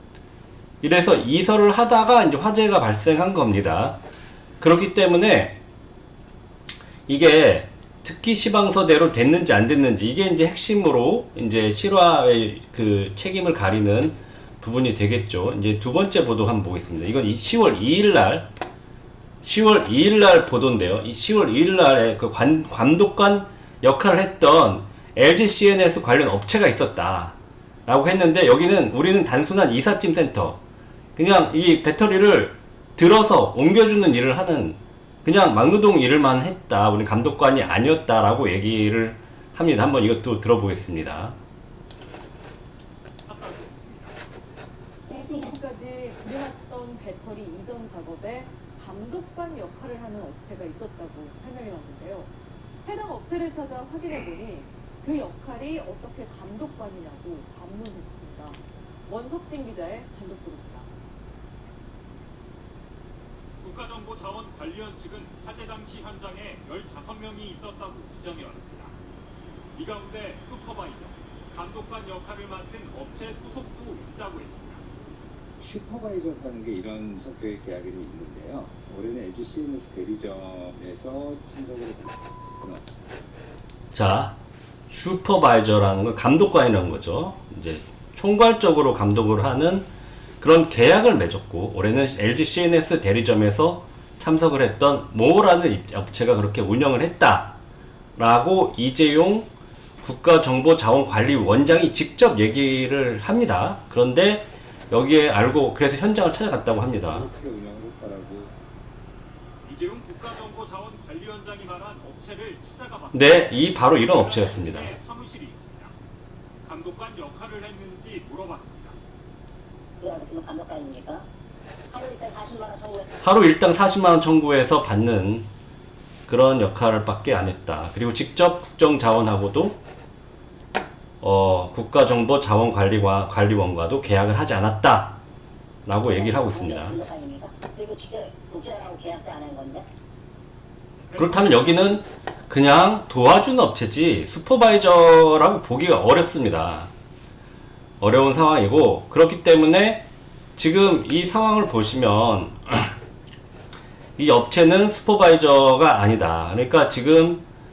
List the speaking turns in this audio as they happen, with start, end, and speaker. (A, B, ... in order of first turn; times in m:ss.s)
0:00.8-0:04.0 A
0:04.6-0:05.6 A
0:07.1-0:18.5 A
0:19.4-0:27.3 A
0:27.8-0:30.6 A
0:31.2-0:41.4 A
0:43.3-0:44.1 B
0:45.1-0:52.3 C
0:52.8-1:00.9 C
1:03.6-1:08.9 B
1:09.7-1:14.8 B
1:15.6-1:22.8 D
1:23.9-1:24.3 A
1:24.9-1:29.8 A
1:30.4-1:37.5 A
1:38.2-1:39.5 A
1:40.0-1:47.3 A
1:47.1-1:48.6 D
1:49.6-1:55.9 B
1:53.1-1:54.9 A
1:56.6-1:59.0 B
2:00.0-2:01.2 E
2:01.9-2:03.1 E
2:03.2-2:05.4 A
2:06.3-2:09.8 A
2:11.2-2:15.2 A
2:15.8-2:17.0 A
2:16.1-2:19.9 E
2:21.1-2:21.6 B
2:21.1-2:26.9 A
2:28.0-2:30.0 A
2:30.6-2:32.9 A
2:34.2-2:37.4 A